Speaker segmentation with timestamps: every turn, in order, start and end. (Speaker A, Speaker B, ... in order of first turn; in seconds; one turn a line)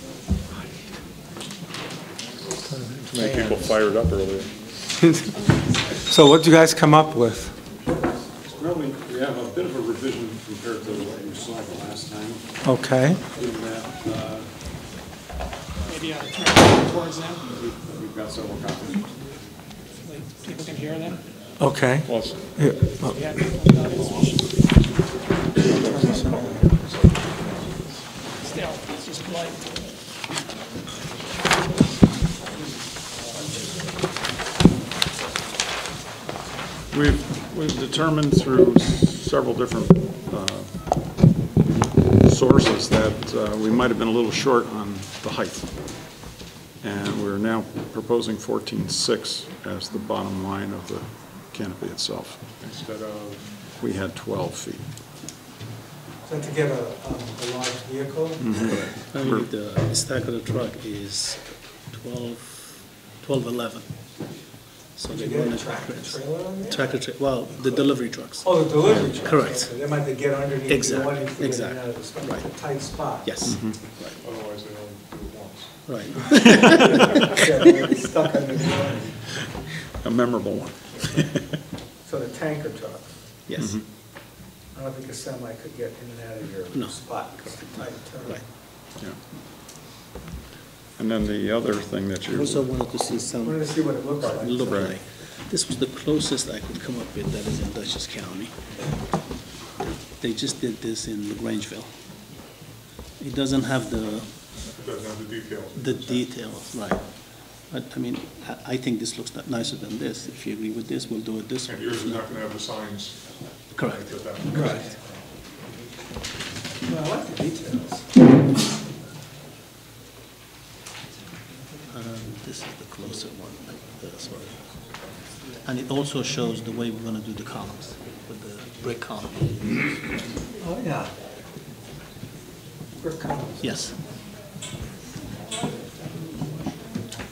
Speaker A: 2.7-3.6
Speaker B: 3.1-4.5
Speaker A: 5.0-5.3
Speaker A: 5.9-7.5
Speaker C: 8.4-12.4
Speaker A: 12.7-13.2
Speaker C: 13.3-14.5
Speaker D: 15.9-17.4
Speaker C: 17.5-19.1
Speaker D: 20.0-21.2
Speaker A: 21.6-23.1
Speaker B: 22.1-22.4
Speaker D: 23.1-24.6
Speaker A: 25.7-26.7
Speaker B: 25.8-26.5
Speaker D: 28.4-29.7
Speaker C: 36.9-40.7
Speaker C: 42.2-45.7
Speaker C: 46.8-52.5
Speaker B: 52.6-53.5
Speaker C: 53.8-54.9
Speaker A: 56.2-58.6
Speaker C: 58.4-59.4
Speaker E: 58.6-63.9
Speaker E: 65.0-69.7
Speaker A: 65.1-67.0
Speaker A: 67.6-73.6
Speaker E: 70.7-72.5
Speaker E: 73.2-74.2
Speaker C: 73.5-73.8
Speaker B: 74.2-75.7
Speaker E: 75.9-77.3
Speaker A: 76.7-79.2
Speaker C: 80.0-81.1
Speaker A: 82.0-83.1
Speaker E: 83.5-83.8
Speaker C: 83.6-83.8
Speaker A: 84.7-88.4
Speaker E: 86.7-88.4
Speaker C: 91.0-92.7
Speaker E: 92.3-98.5
Speaker A: 93.4-94.9
Speaker C: 94.6-95.0
Speaker E: 100.0-101.9
Speaker E: 103.2-104.3
Speaker B: 104.7-106.2
Speaker E: 105.8-107.0
Speaker E: 107.7-112.4
Speaker B: 111.7-113.2
Speaker E: 113.7-114.9
Speaker B: 113.8-114.8
Speaker A: 114.5-114.9
Speaker A: 116.9-118.1
Speaker E: 121.9-124.7
Speaker E: 125.6-130.0
Speaker A: 130.6-131.1
Speaker A: 133.0-133.8
Speaker E: 133.6-134.0